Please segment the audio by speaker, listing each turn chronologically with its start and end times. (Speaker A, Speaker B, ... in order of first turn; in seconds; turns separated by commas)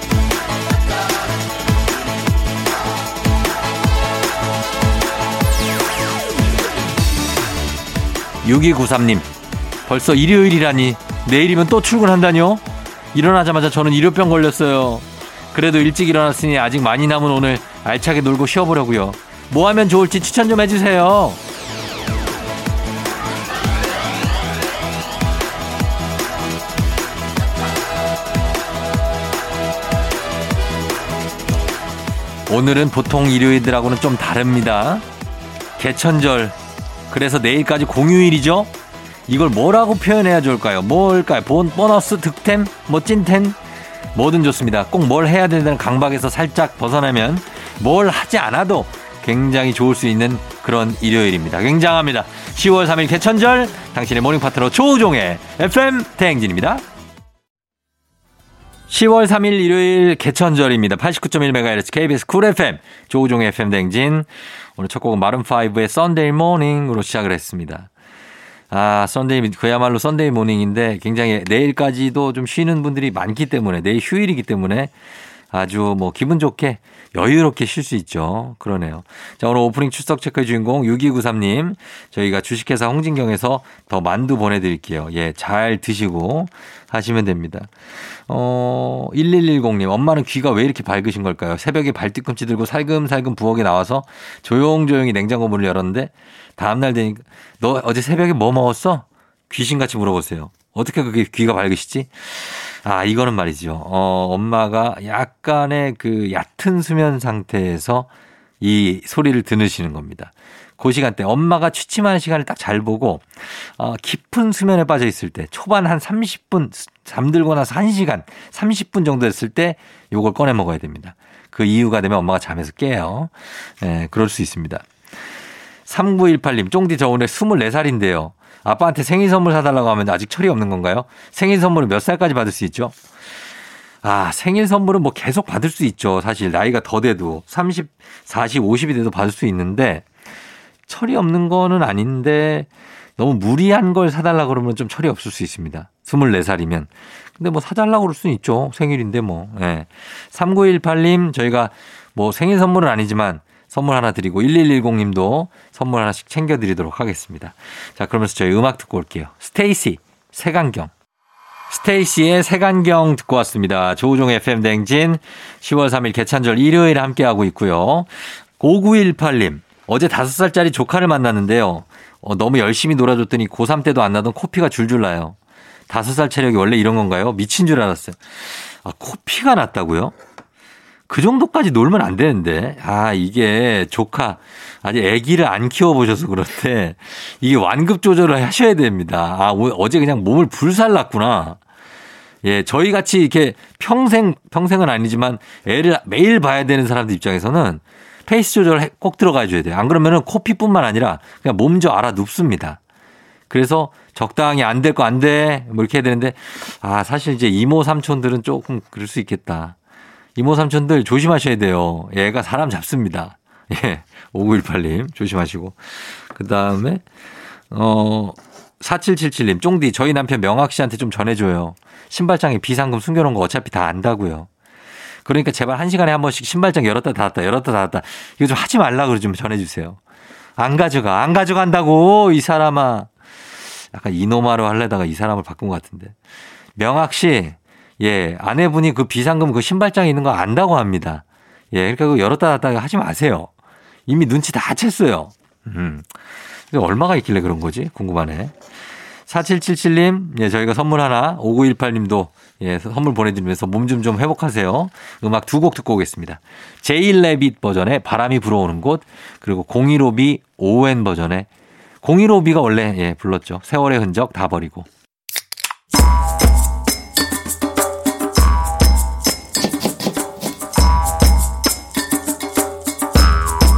Speaker A: 8.4-9.3, Speaker A: 9.9-12.6, Speaker A: 13.1-21.4, Speaker A: 32.5-35.0, Speaker A: 35.8-36.5, Speaker A: 37.1-38.7, Speaker A: 39.3-43.6, Speaker A: 44.1-56.8, Speaker A: 58.9-67.9, Speaker A: 68.7-74.9, Speaker A: 75.5-87.7, Speaker A: 88.3-108.1, Speaker A: 108.6-124.8, Speaker A: 125.9-132.9, Speaker A: 134.0-140.0, Speaker A: 140.9-160.9, Speaker A: 161.7-175.3, Speaker A: 175.9-180.1, Speaker A: 181.1-191.6, Speaker A: 192.4-202.8, Speaker A: 203.5-209.7, Speaker A: 210.3-217.0, Speaker A: 217.7-224.5, Speaker A: 225.2-230.0, Speaker A: 230.6-233.1, Speaker A: 233.9-236.1, Speaker A: 236.8-243.5, Speaker A: 244.1-246.1, Speaker A: 246.7-248.5, Speaker A: 249.3-261.5, Speaker A: 262.0-264.9